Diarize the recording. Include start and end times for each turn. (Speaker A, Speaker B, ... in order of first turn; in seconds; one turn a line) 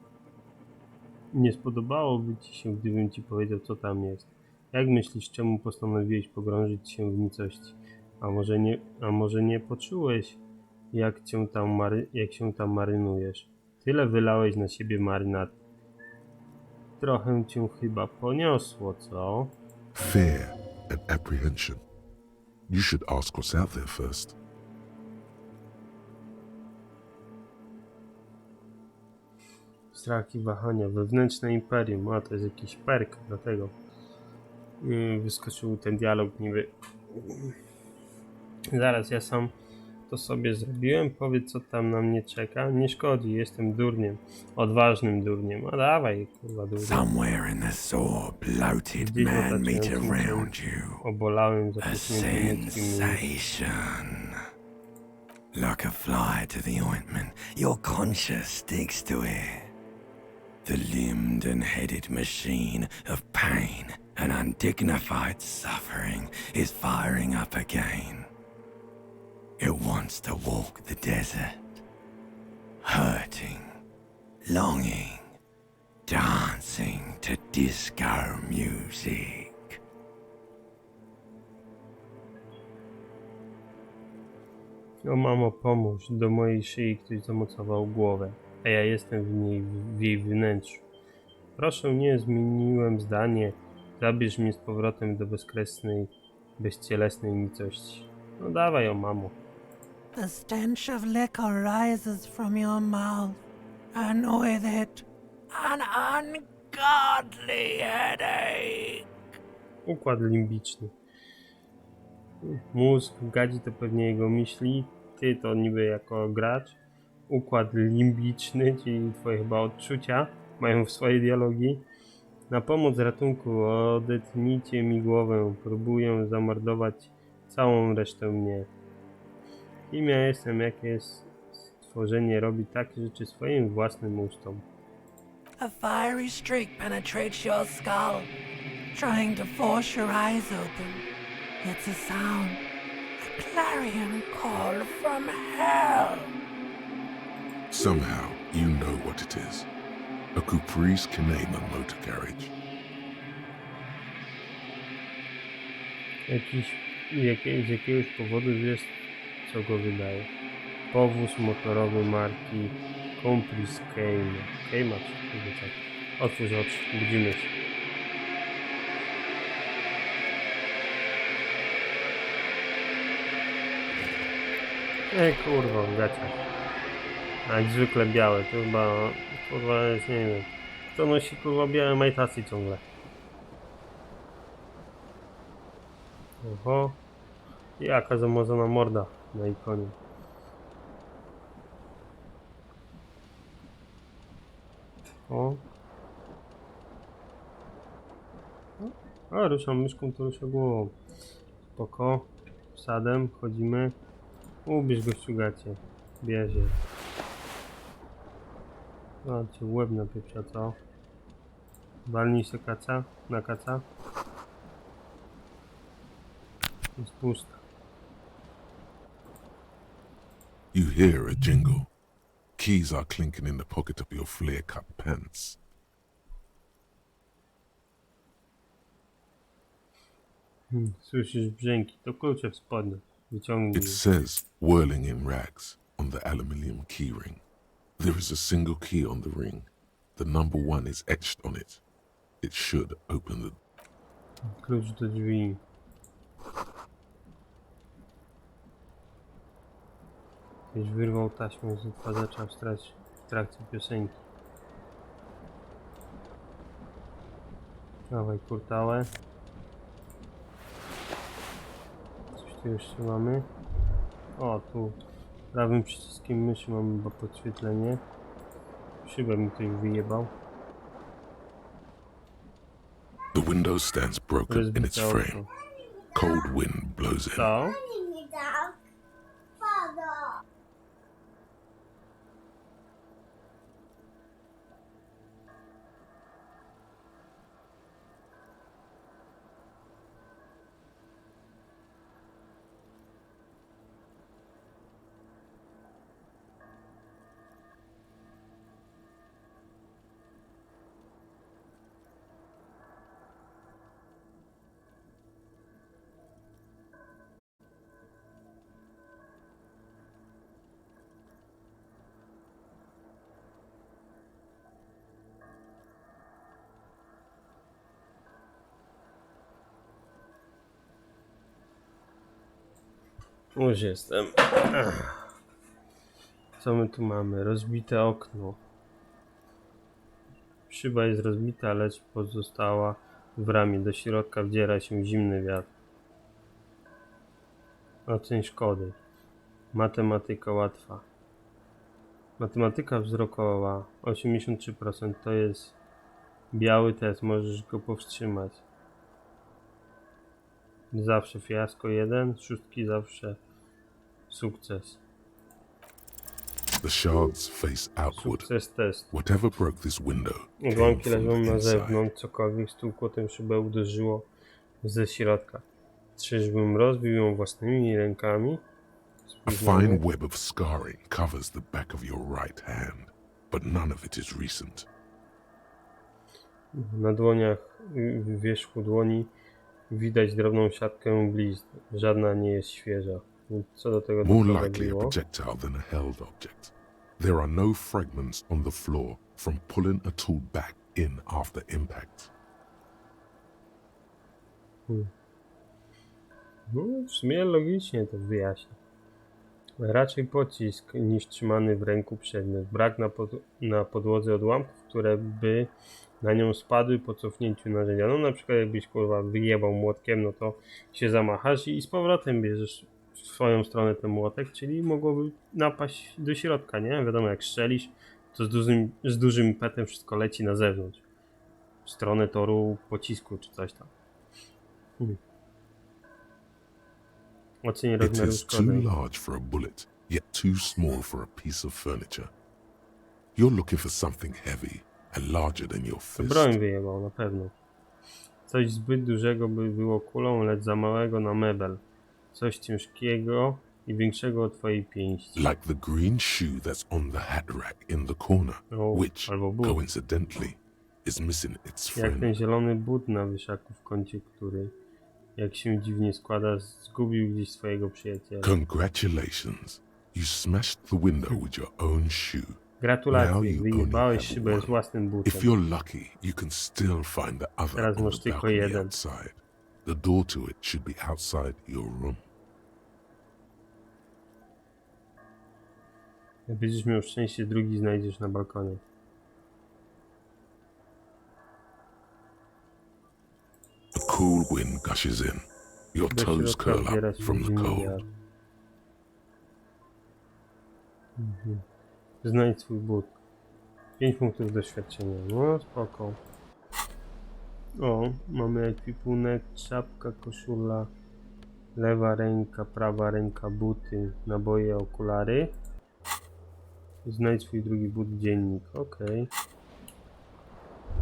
Speaker A: 1.3-10.4
Speaker A: 10.9-15.6
Speaker A: 17.0-19.5
Speaker B: 19.9-21.8
Speaker B: 22.7-24.4
Speaker A: 29.9-33.7
Speaker A: 34.8-37.5
Speaker A: 38.7-39.5
Speaker A: 40.1-47.1
Speaker C: 46.8-51.0
Speaker A: 49.0-53.3
Speaker C: 51.8-54.4
Speaker C: 55.5-59.7
Speaker C: 60.6-68.3
Speaker C: 69.6-71.8
Speaker C: 72.8-73.8
Speaker C: 74.5-75.4
Speaker C: 76.0-79.8
Speaker A: 85.0-90.8
Speaker A: 91.6-99.4
Speaker D: 100.1-103.4
Speaker D: 103.9-109.0
Speaker A: 109.8-110.9
Speaker A: 112.4-116.8
Speaker A: 117.3-121.8
Speaker A: 122.5-128.7
Speaker A: 129.9-134.6
Speaker D: 135.6-138.3
Speaker D: 138.9-141.0
Speaker D: 141.6-142.6
Speaker D: 143.2-146.3
Speaker B: 147.7-149.7
Speaker B: 150.3-152.5
Speaker A: 156.3-160.3
Speaker A: 160.9-167.5
Speaker A: 175.1-176.4
Speaker A: 177.5-182.8
Speaker A: 186.4-187.0
Speaker A: 187.8-189.9
Speaker A: 195.3-195.6
Speaker A: 198.8-200.9
Speaker A: 201.7-204.0
Speaker A: 204.6-206.8
Speaker A: 209.2-210.8
Speaker A: 212.1-213.8
Speaker A: 217.0-217.6
Speaker B: 220.7-221.9
Speaker B: 222.6-225.6
Speaker A: 230.7-234.0
Speaker B: 233.7-237.4
Speaker B: 238.0-241.8
Speaker B: 242.4-243.6
Speaker A: 244.6-245.6
Speaker A: 250.7-254.2
Speaker A: 258.1-259.1
Speaker A: 262.4-263.5
Speaker A: 264.4-265.0
Speaker A: 265.5-268.0
Speaker A: 269.0-270.3
Speaker B: 273.3-275.4
Speaker A: 274.5-275.5
Speaker B: 276.1-277.5
Speaker A: 277.3-277.8
Speaker A: 323.5-325.3
Speaker A: 326.6-328.6
Speaker A: 330.7-335.7
Speaker A: 338.1-339.0
Speaker A: 339.7-341.1
Speaker A: 342.4-345.8
Speaker A: 346.5-348.6
Speaker A: 350.9-353.4
Speaker A: 354.3-355.0
Speaker B: 356.8-358.5
Speaker A: 358.1-359.1
Speaker B: 359.1-362.0
Speaker A: 360.6-364.3
Speaker A: 364.8-365.6
Speaker A: 366.1-368.6
Speaker A: 369.3-370.0
Speaker B: 369.4-374.9
Speaker A: 376.7-379.3
Speaker A: 379.9-385.1
Speaker B: 384.2-392.3
Speaker A: 396.7-398.8
Speaker A: 399.8-421.0
Speaker A: 421.8-423.9
Speaker A: 427.6-428.9
Speaker B: 428.0-432.3
Speaker B: 433.4-436.6
Speaker A: 436.1-437.5
Speaker A: 438.4-445.5
Speaker B: 445.4-452.3
Speaker A: 448.7-449.8
Speaker A: 451.9-454.7
Speaker A: 455.4-458.5
Speaker B: 458.4-462.6
Speaker A: 462.8-465.5
Speaker B: 463.1-472.2
Speaker A: 467.7-468.9
Speaker A: 476.5-478.8
Speaker B: 483.9-488.0
Speaker A: 486.1-488.1
Speaker A: 491.2-491.6
Speaker A: 492.2-493.1
Speaker A: 494.0-496.2
Speaker A: 497.8-500.9
Speaker A: 501.8-505.5
Speaker A: 507.0-509.3